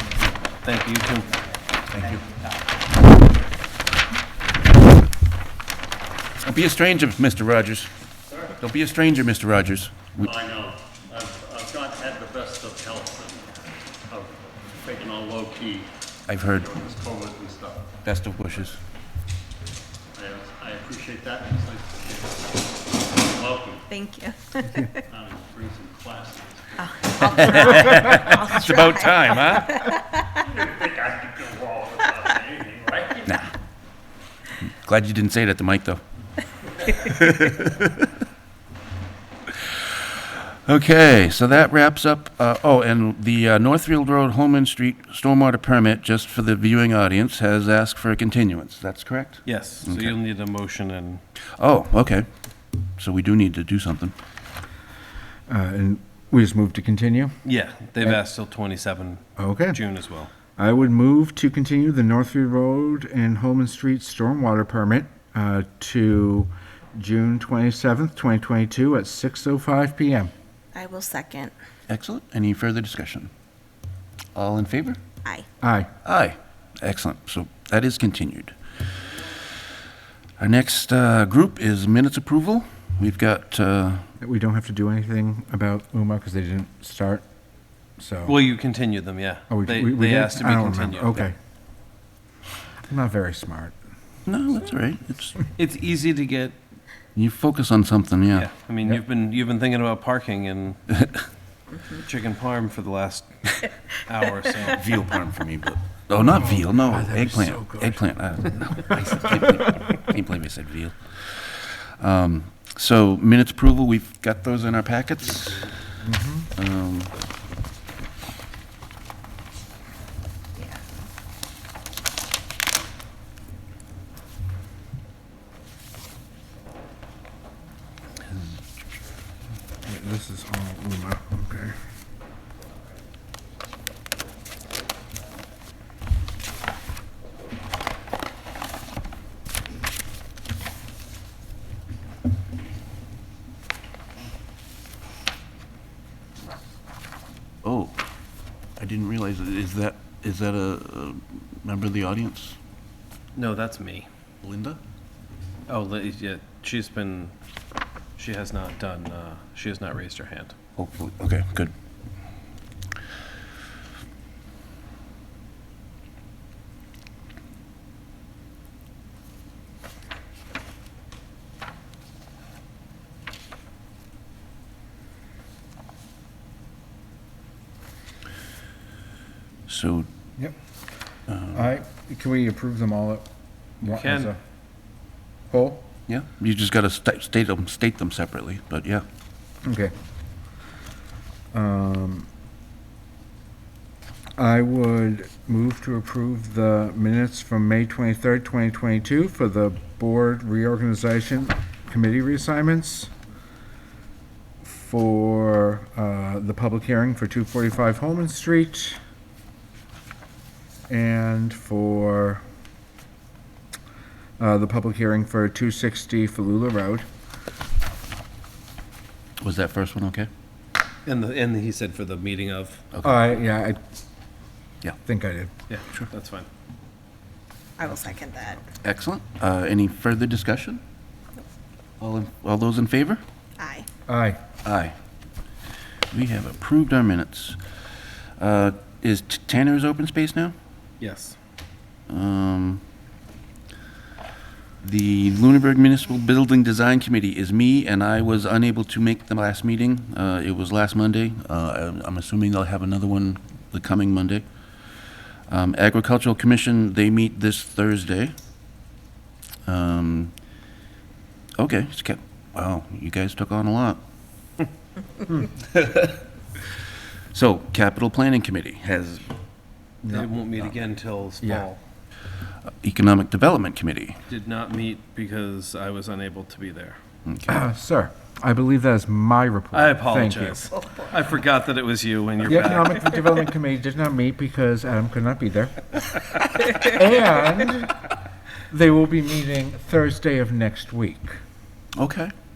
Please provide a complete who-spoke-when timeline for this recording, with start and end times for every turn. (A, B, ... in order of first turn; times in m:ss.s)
0:00.6-0:01.3 A
0:01.9-0:02.2 B
0:06.4-0:07.9 B
0:08.5-0:10.3 B
0:10.2-0:13.6 C
0:14.1-0:15.9 C
0:16.3-0:16.8 B
0:16.4-0:17.9 C
0:18.0-0:18.8 B
0:20.1-0:23.8 C
0:23.9-0:25.0 D
0:25.1-0:28.3 C
0:26.8-0:30.4 D
0:27.2-0:29.9 B
0:30.4-0:33.4 C
0:34.6-0:36.0 B
0:36.9-0:38.1 B
0:39.5-0:50.1 B
0:49.4-0:51.2 A
0:51.6-0:52.3 B
0:53.0-0:54.1 B
0:55.5-0:57.3 E
0:57.4-1:00.3 A
0:59.4-0:59.8 E
1:00.6-1:10.3 E
1:10.7-1:11.5 D
1:11.9-1:13.3 B
1:14.3-1:15.0 B
1:15.6-1:15.9 E
1:16.0-1:18.6 B
1:20.4-1:24.1 B
1:24.2-1:27.2 E
1:28.0-1:28.4 E
1:28.2-1:31.2 A
1:29.5-1:31.3 E
1:32.9-1:33.8 E
1:34.2-1:35.4 B
1:35.6-1:36.6 A
1:37.2-1:38.5 B
1:38.3-1:40.8 A
1:41.9-1:44.8 A
1:44.7-1:55.7 B
1:46.2-1:48.0 E
1:56.0-1:56.5 E
1:56.6-1:57.1 B
2:09.8-2:11.7 E
2:27.6-2:28.0 B
2:28.8-2:32.6 B
2:33.3-2:34.1 A
2:34.4-2:34.8 B
2:35.7-2:37.3 A
2:38.2-2:40.5 A
2:40.8-2:41.7 B
2:59.7-3:00.1 B
3:01.3-3:01.6 B
3:01.5-3:03.2 E
3:03.8-3:04.4 E
3:03.9-3:04.3 A
3:05.5-3:05.8 E
3:06.1-3:09.0 B
3:09.6-3:09.9 E
3:11.5-3:12.3 E
3:14.4-3:23.1 E
3:24.6-3:29.0 E
3:30.9-3:32.4 E
3:34.4-3:37.0 E
3:39.4-3:40.3 B
3:41.0-3:42.8 A
3:43.0-3:43.8 E
3:45.0-3:45.5 E
3:45.7-3:46.5 A
3:47.8-3:48.6 D
3:48.8-3:50.8 B
3:52.0-3:53.2 B
3:53.6-3:53.9 D
3:54.1-3:54.4 E
3:54.6-3:54.9 B
3:56.1-3:57.6 B
3:58.4-4:00.5 B
4:01.0-4:01.4 A
4:02.1-4:02.8 B
4:04.8-4:14.4 B
4:15.5-4:18.3 B
4:19.7-4:20.3 B
4:21.6-4:24.0 B
4:25.7-4:26.2 B
4:27.3-4:29.3 B
4:30.0-4:30.3 E
4:30.1-4:31.8 A
4:32.8-4:34.2 B
4:34.3-4:37.0 A
4:37.2-4:37.5 B
4:37.5-4:40.7 E
4:39.7-4:43.0 A
4:42.4-4:45.9 E
4:46.8-4:47.9 E
4:48.7-4:51.4 E
4:52.0-4:52.3 B